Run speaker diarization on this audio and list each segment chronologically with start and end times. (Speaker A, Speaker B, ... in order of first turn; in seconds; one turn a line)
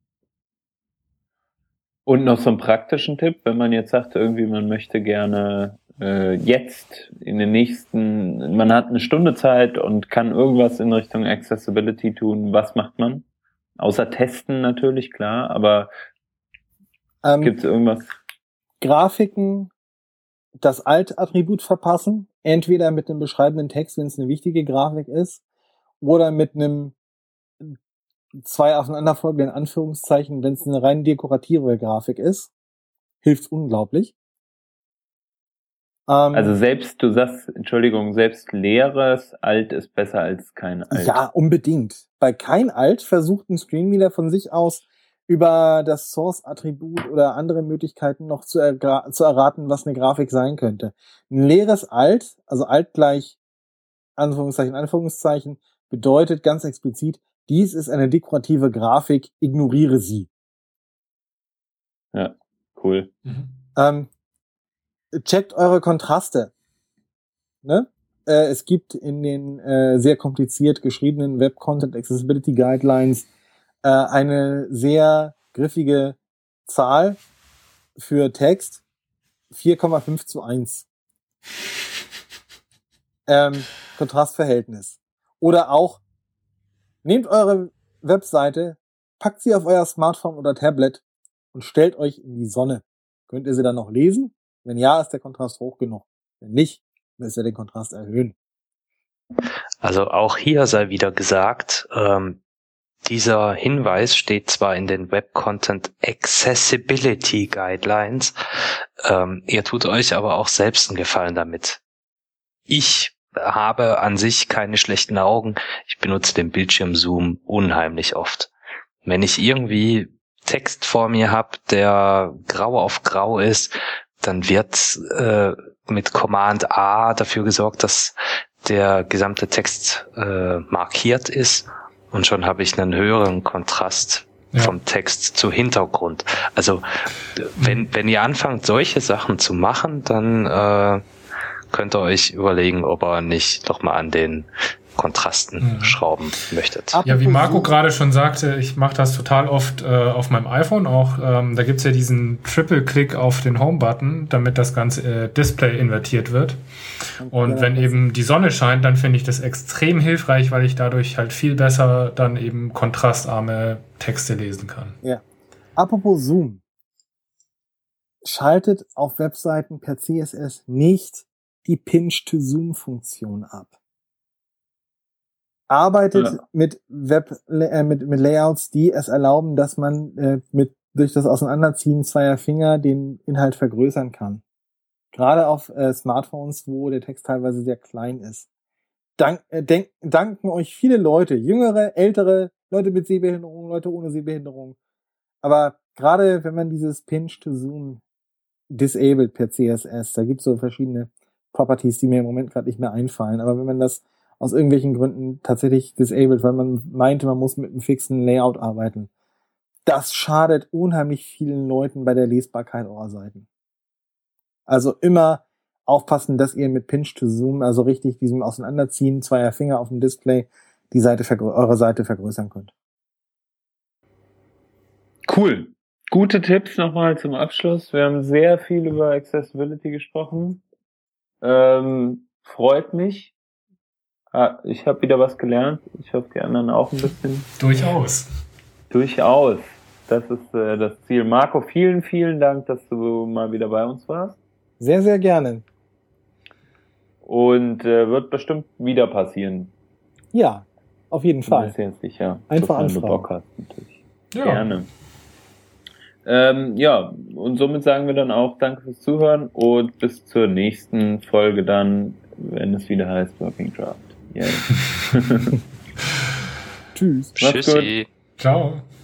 Speaker A: 2.1-13.3
Speaker A: 13.8-15.9
Speaker B: 17.2-17.6
Speaker A: 17.4-18.1
Speaker B: 18.8-19.7
Speaker B: 20.6-25.4
Speaker B: 26.0-26.9
Speaker B: 28.4-32.5
Speaker B: 33.2-34.1
Speaker B: 36.1-36.5
Speaker A: 36.3-41.2
Speaker B: 40.9-53.4
Speaker B: 54.2-60.3
Speaker A: 62.1-63.1
Speaker B: 63.8-64.1
Speaker B: 65.1-66.5
Speaker B: 67.6-73.3
Speaker B: 73.8-77.2
Speaker B: 78.0-78.8
Speaker B: 79.5-80.9
Speaker B: 83.3-86.0
Speaker B: 87.0-91.0
Speaker B: 91.5-98.3
Speaker C: 99.8-102.4
Speaker C: 103.1-108.3
Speaker C: 109.0-111.8
Speaker C: 112.7-118.5
Speaker C: 119.0-141.0
Speaker D: 137.6-137.8
Speaker C: 141.7-147.0
Speaker D: 145.6-146.0
Speaker B: 146.9-147.7
Speaker D: 147.1-156.6
Speaker D: 157.2-165.0
Speaker B: 157.2-157.9
Speaker B: 165.8-166.6
Speaker B: 168.2-173.7
Speaker B: 175.7-184.4
Speaker B: 185.1-188.5
Speaker B: 189.2-194.8
Speaker B: 195.4-198.0
Speaker B: 198.7-209.1
Speaker B: 209.9-213.5
Speaker B: 214.7-222.7
Speaker A: 225.3-230.6
Speaker A: 231.4-233.3
Speaker A: 234.3-237.5
Speaker D: 237.6-238.3
Speaker A: 238.9-244.4
Speaker B: 244.8-245.7
Speaker A: 247.2-249.7
Speaker B: 250.3-251.7
Speaker A: 251.4-254.9
Speaker B: 252.5-253.3
Speaker D: 254.3-254.7
Speaker A: 256.2-265.6
Speaker B: 266.9-267.3
Speaker C: 267.4-268.1
Speaker A: 267.4-267.9
Speaker D: 268.4-268.9